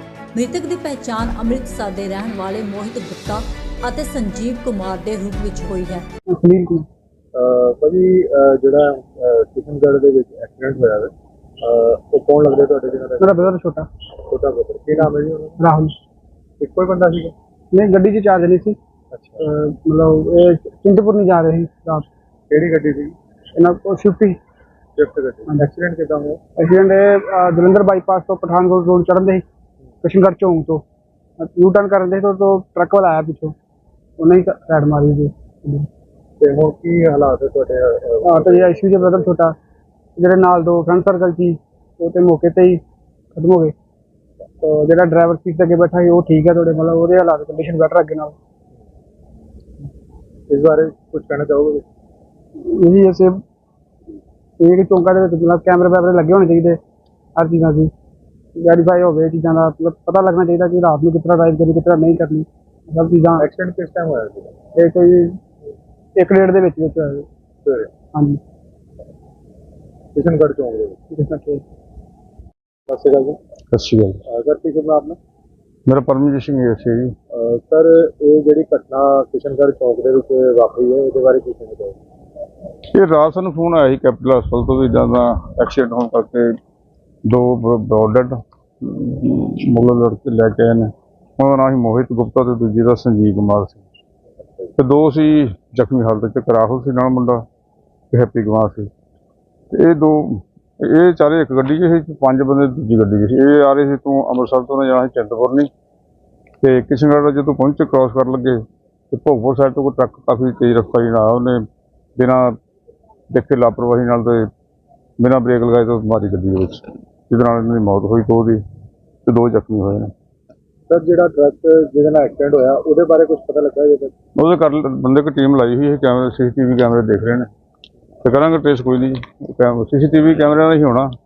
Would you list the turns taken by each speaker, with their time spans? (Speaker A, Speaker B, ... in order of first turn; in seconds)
Speaker A: 0.3-6.0
Speaker B: 6.3-6.9, 13.2-13.9, 15.6-15.9, 17.7-18.8, 19.4-22.1, 23.5-24.4, 26.6-29.4, 30.0-30.8, 31.4-33.5, 34.2-35.9, 38.2-39.5, 40.1-42.8, 43.3-43.7, 44.6-48.4, 52.6-53.4, 54.6-56.8, 57.3-57.9, 58.5-63.5, 64.7-65.4, 66.2-67.3, 68.1-68.4, 71.1-71.6
Speaker C: 7.3-13.5, 14.2-15.6, 16.6-17.3, 19.1-19.4, 22.5-23.1, 25.0-26.4, 36.4-39.3, 50.5-51.8, 63.4-64.5, 67.6-67.9, 70.1-71.0, 72.9-73.4, 74.3-75.2, 77.3-82.0, 120.9-124.1
Speaker D: 73.7-74.2, 75.9-77.2, 82.9-86.6, 87.2-93.8, 94.8-97.4, 98.1-98.9, 99.7-105.7, 106.6-111.6, 112.2-112.6, 113.3-114.5, 115.2-118.6, 119.2-120.1, 124.4-127.5, 128.2-131.1